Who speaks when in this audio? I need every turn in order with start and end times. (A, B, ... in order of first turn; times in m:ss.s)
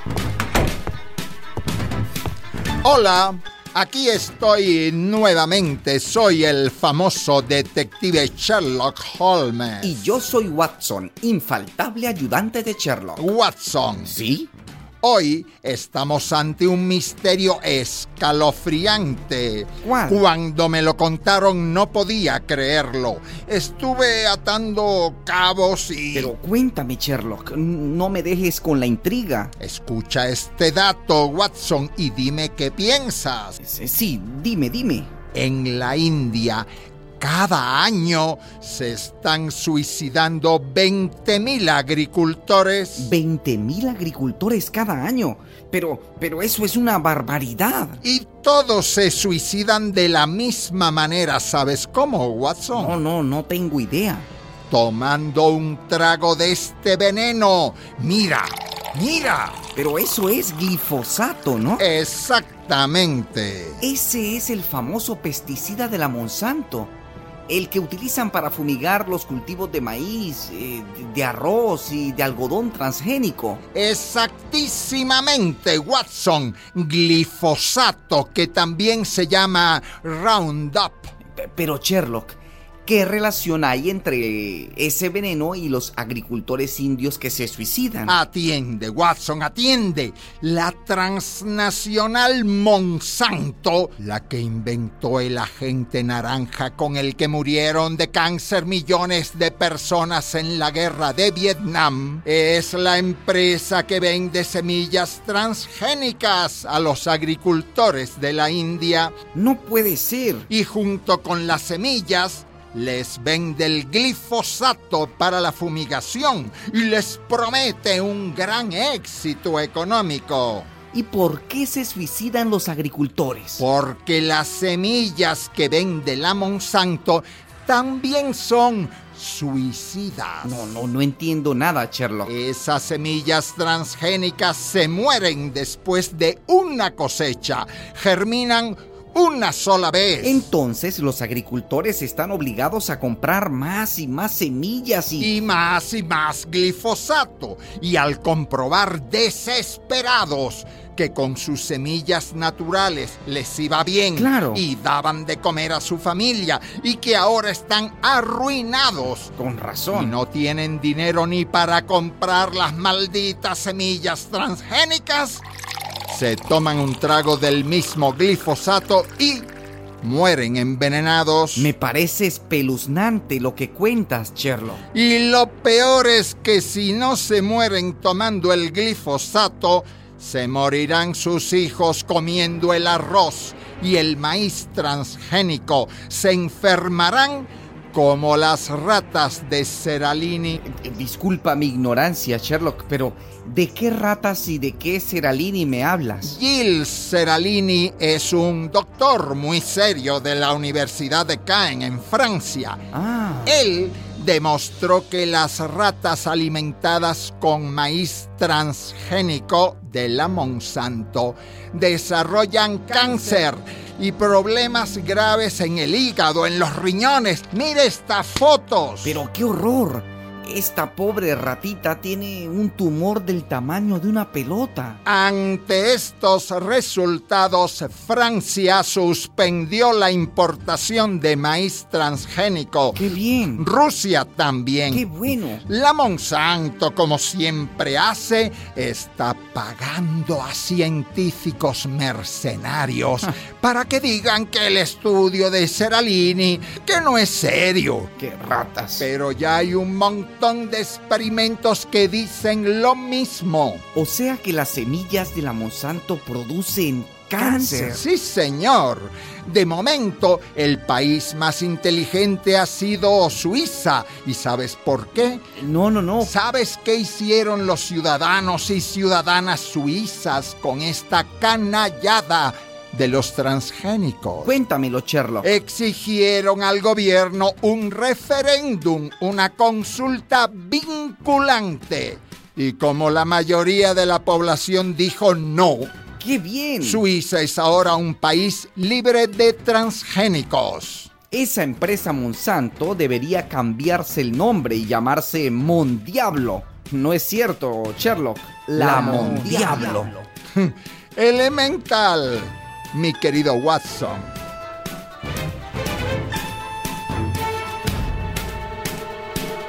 0:02.8-0:10.2 A
0:09.8-0:13.3 B
0:13.2-0:14.2 A
0:14.0-0:14.5 B
0:15.0-0:26.3 A
0:19.8-0:20.2 B
0:26.1-0:29.5 B
0:29.6-0:33.6 A
0:33.6-0:35.1 B
0:35.3-0:36.7 A
0:37.2-0:43.1 A
0:43.0-0:48.0 B
0:48.0-0:53.0 A
0:52.7-0:54.3 B
0:54.7-0:59.6 A
0:59.7-1:01.9 B
1:01.8-1:03.8 A
1:03.8-1:06.9 B
1:07.5-1:13.6 B
1:13.7-1:21.1 A
1:21.3-1:28.2 B
1:28.1-1:49.1 A
1:49.3-1:50.5 B
1:50.5-2:00.7 A
2:00.9-2:03.6 B
2:03.6-2:10.7 A
2:10.4-2:12.3 B
2:12.2-2:20.5 A
2:20.2-2:25.3 B
2:25.2-2:39.3 A
2:34.2-2:34.6 B
2:39.4-2:40.2 B
2:39.9-2:45.4 A
2:46.1-2:51.7 A
2:51.6-2:54.8 B
2:54.9-3:10.6 A
3:10.6-3:16.4 B
3:16.2-3:22.8 A
3:22.9-3:23.6 B
3:23.4-3:39.2 A
3:39.0-3:45.0 B
3:45.0-3:55.1 A
3:52.9-3:53.7 B
3:54.9-3:55.6 B
3:55.7-4:08.1 A
4:08.2-4:09.1 B
4:09.0-4:13.8 A
4:13.9-4:18.0 B
4:17.4-4:25.4 A
4:25.6-4:26.3 B
4:26.2-4:34.6 A
4:34.4-4:35.5 B
4:35.4-4:45.9 A
4:46.2-4:47.0 B
4:46.8-4:51.1 A
4:51.3-5:00.2 B
4:58.8-5:04.3 A